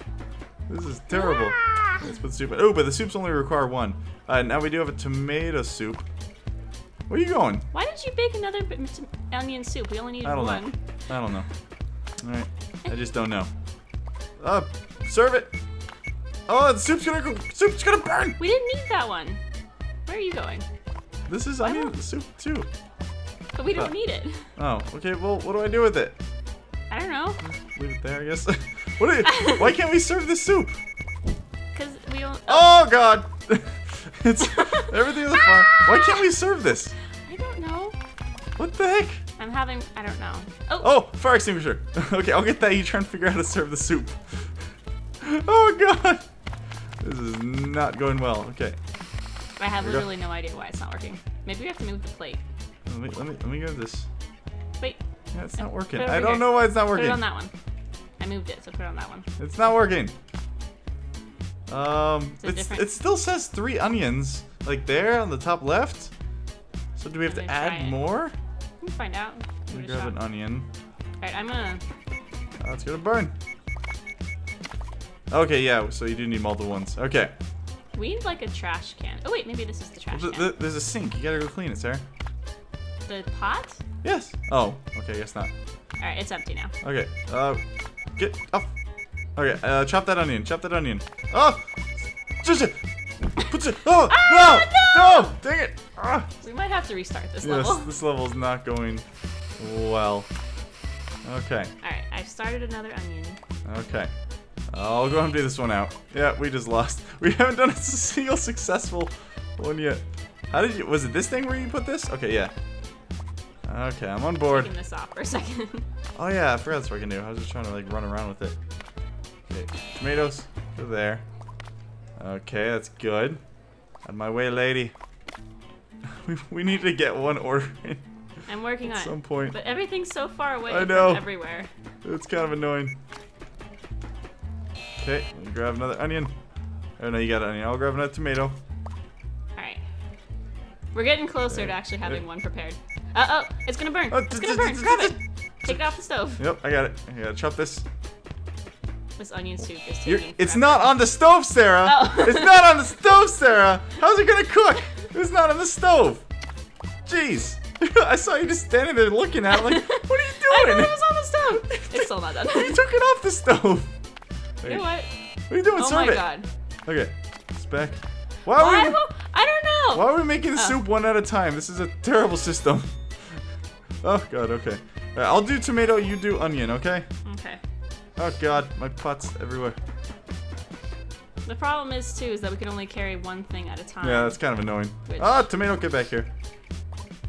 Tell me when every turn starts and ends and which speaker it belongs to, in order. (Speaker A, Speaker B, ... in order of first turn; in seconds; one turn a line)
Speaker A: 0.7-6.0
Speaker B: 1.1-2.0
Speaker A: 7.1-7.7
Speaker B: 7.7-10.8
Speaker A: 10.2-11.5
Speaker A: 12.2-13.5
Speaker A: 14.4-15.5
Speaker A: 16.5-18.4
Speaker B: 18.4-19.4
Speaker B: 20.1-20.6
Speaker A: 21.3-22.7
Speaker B: 21.6-22.0
Speaker B: 23.5-24.4
Speaker A: 24.6-26.1
Speaker B: 26.9-27.4
Speaker A: 27.4-30.7
Speaker B: 29.3-29.6
Speaker B: 31.7-32.7
Speaker A: 32.5-36.9
Speaker B: 34.4-36.2
Speaker B: 37.2-38.0
Speaker A: 38.6-39.2
Speaker B: 39.4-40.9
Speaker A: 40.8-44.5
Speaker A: 45.2-46.2
Speaker A: 47.0-48.8
Speaker B: 49.6-52.4
Speaker A: 49.8-50.0
Speaker A: 52.9-54.1
Speaker A: 55.3-57.2
Speaker B: 55.6-57.5
Speaker B: 58.2-59.2
Speaker A: 59.4-60.1
Speaker A: 61.7-66.1
Speaker B: 62.4-62.9
Speaker A: 67.0-68.3
Speaker B: 67.2-68.0
Speaker B: 68.8-70.2
Speaker A: 69.7-70.7
Speaker B: 71.2-71.8
Speaker A: 72.6-73.3
Speaker A: 75.3-77.3
Speaker B: 77.9-80.5
Speaker A: 80.1-82.0
Speaker B: 83.1-83.8
Speaker A: 84.0-85.5
Speaker B: 86.0-86.7
Speaker A: 86.8-87.6
Speaker A: 88.2-88.7
Speaker A: 89.3-91.6
Speaker A: 92.4-92.8
Speaker A: 93.4-96.3
Speaker B: 94.1-95.3
Speaker B: 96.4-97.9
Speaker A: 97.4-99.0
Speaker A: 99.6-100.3
Speaker A: 101.2-101.7
Speaker B: 101.8-103.4
Speaker A: 103.6-104.1
Speaker A: 104.7-112.5
Speaker A: 113.7-114.7
Speaker B: 114.5-115.8
Speaker A: 116.2-118.5
Speaker A: 119.5-121.2
Speaker A: 122.2-123.4
Speaker A: 124.0-124.9
Speaker A: 126.2-128.0
Speaker B: 128.5-131.7
Speaker A: 128.8-129.6
Speaker A: 130.7-131.3
Speaker A: 132.0-132.9
Speaker A: 135.0-136.3
Speaker A: 137.0-138.5
Speaker B: 139.6-139.8
Speaker B: 140.9-146.4
Speaker A: 141.5-142.2
Speaker A: 144.1-145.8
Speaker A: 146.4-147.8
Speaker B: 149.2-151.0
Speaker A: 150.0-156.2
Speaker B: 151.8-152.9
Speaker A: 157.1-161.0
Speaker B: 159.5-162.8
Speaker A: 161.5-163.9
Speaker B: 164.6-165.1
Speaker A: 165.5-166.3
Speaker B: 165.6-166.5
Speaker A: 166.8-169.0
Speaker B: 168.5-170.8
Speaker A: 169.9-172.9
Speaker A: 174.0-177.1
Speaker B: 177.2-177.6
Speaker A: 178.2-179.8
Speaker B: 181.4-184.4
Speaker A: 184.0-186.3
Speaker B: 185.1-185.4